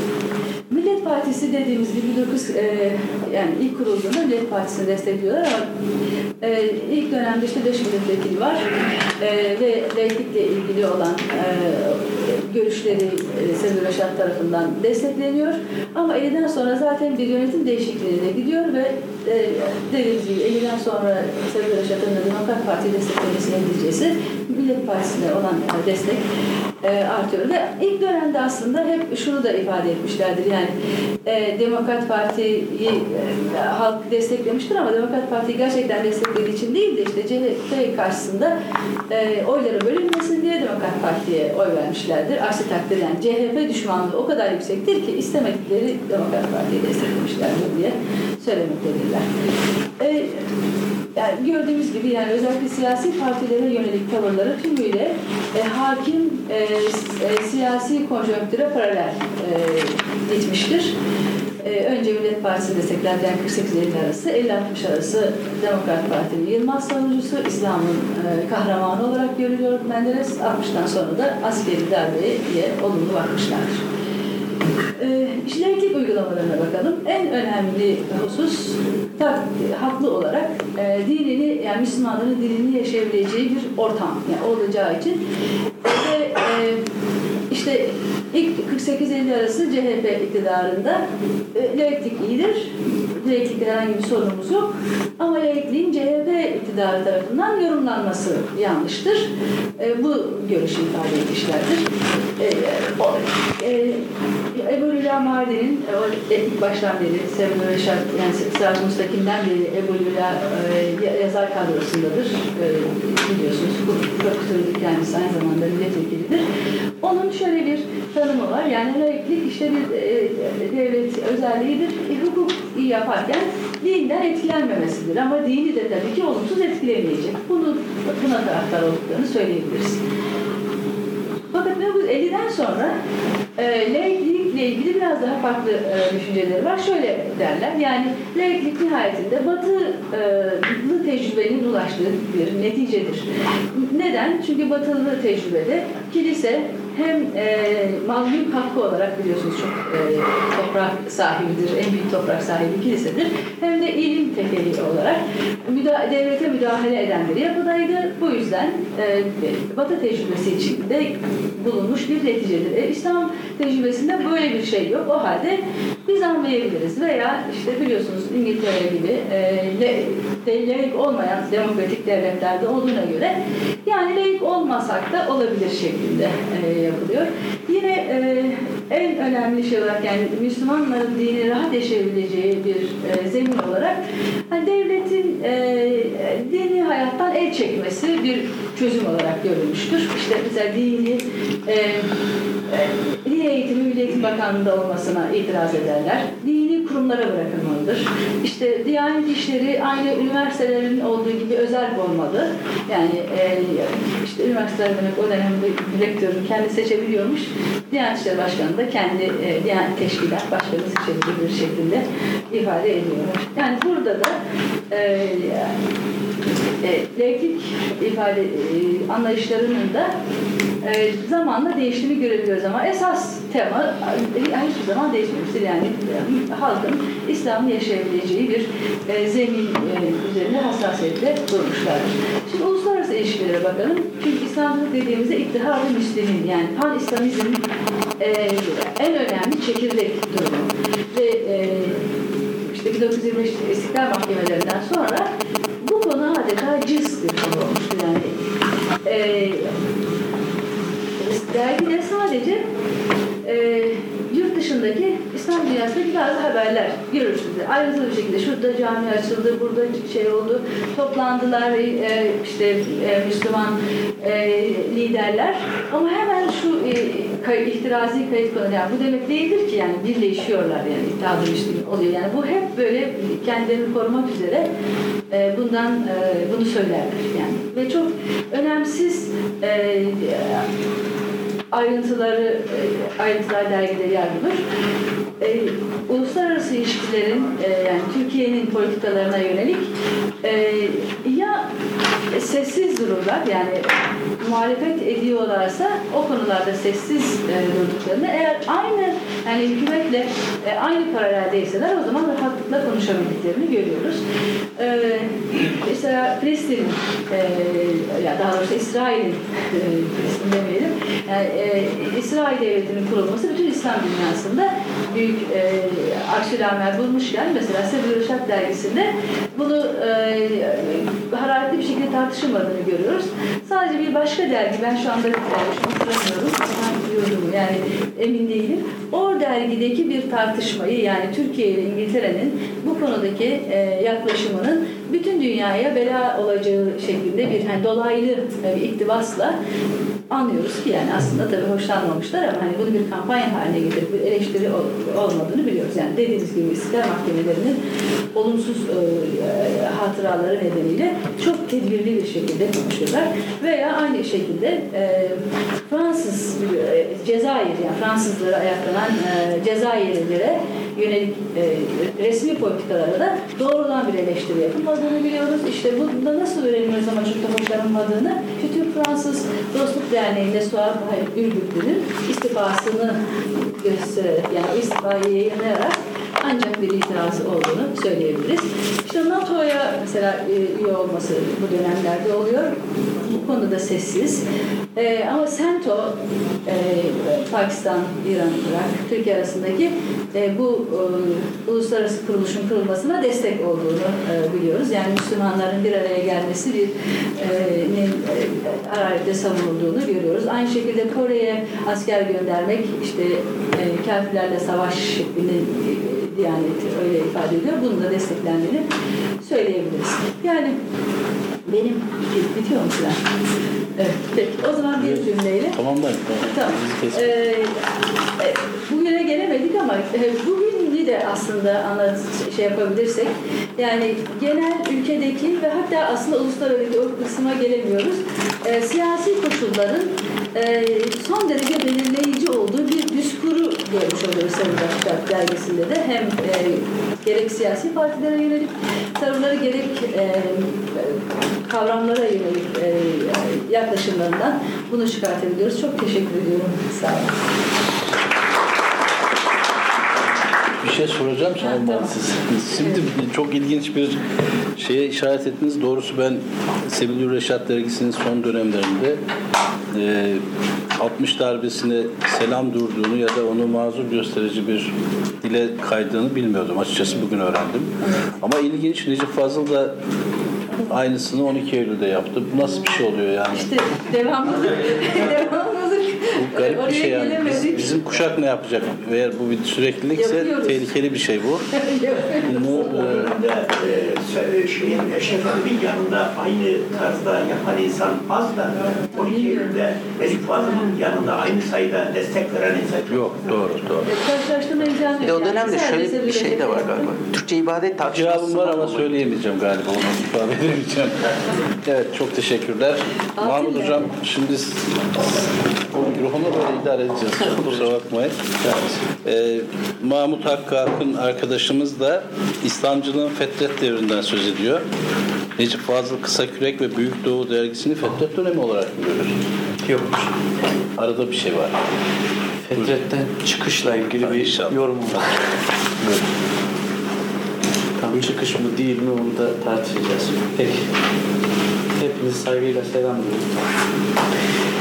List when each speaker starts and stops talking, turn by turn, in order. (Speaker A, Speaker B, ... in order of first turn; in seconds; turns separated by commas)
Speaker A: 0.7-5.6, Speaker A: 6.4-8.7, Speaker A: 9.2-26.2, Speaker A: 26.8-30.7, Speaker A: 31.2-38.5, Speaker A: 39.1-49.3, Speaker A: 50.0-50.3, Speaker A: 51.1-60.9, Speaker A: 61.6-73.8, Speaker A: 75.0-85.2, Speaker A: 85.8-86.8, Speaker A: 87.5-91.0, Speaker A: 91.5-101.8, Speaker A: 102.4-104.0, Speaker A: 104.5-116.4, Speaker A: 117.0-130.0, Speaker A: 131.5-133.0, Speaker A: 133.6-184.0, Speaker A: 184.5-192.1, Speaker A: 192.7-214.3, Speaker A: 214.9-215.7, Speaker A: 216.8-220.1, Speaker A: 220.8-237.6, Speaker A: 238.2-242.0, Speaker A: 242.7-245.3, Speaker A: 245.8-248.3, Speaker A: 249.0-249.7, Speaker A: 251.2-252.6, Speaker A: 253.4-274.7, Speaker A: 275.3-280.6, Speaker A: 281.7-284.6, Speaker A: 285.4-289.9, Speaker A: 290.4-291.7, Speaker A: 292.3-293.9, Speaker A: 294.4-304.2, Speaker A: 304.8-339.6, Speaker A: 340.3-347.8, Speaker A: 348.3-382.7, Speaker A: 383.2-384.4, Speaker A: 384.9-386.1, Speaker A: 386.6-408.8, Speaker A: 409.4-410.8, Speaker A: 411.6-413.2, Speaker A: 414.0-415.8, Speaker B: 414.9-417.3, Speaker A: 416.4-417.7, Speaker A: 418.4-447.3, Speaker B: 450.8-454.2, Speaker A: 451.6-452.1, Speaker B: 454.8-459.2, Speaker B: 459.9-460.4, Speaker B: 461.0-469.9, Speaker B: 470.8-473.7, Speaker A: 473.5-477.9, Speaker B: 476.3-481.7, Speaker A: 480.1-480.8, Speaker A: 481.8-483.2, Speaker B: 482.4-483.4, Speaker C: 483.2-493.3, Speaker A: 489.3-489.8, Speaker A: 490.6-490.9, Speaker B: 493.1-494.1, Speaker A: 494.1-497.1, Speaker D: 495.2-499.1, Speaker B: 498.1-514.8, Speaker A: 503.4-504.0, Speaker B: 515.6-519.4, Speaker E: 519.8-520.3, Speaker B: 521.0-521.8, Speaker E: 522.6-525.5, Speaker B: 524.2-525.3, Speaker E: 528.0-530.9, Speaker E: 532.0-533.5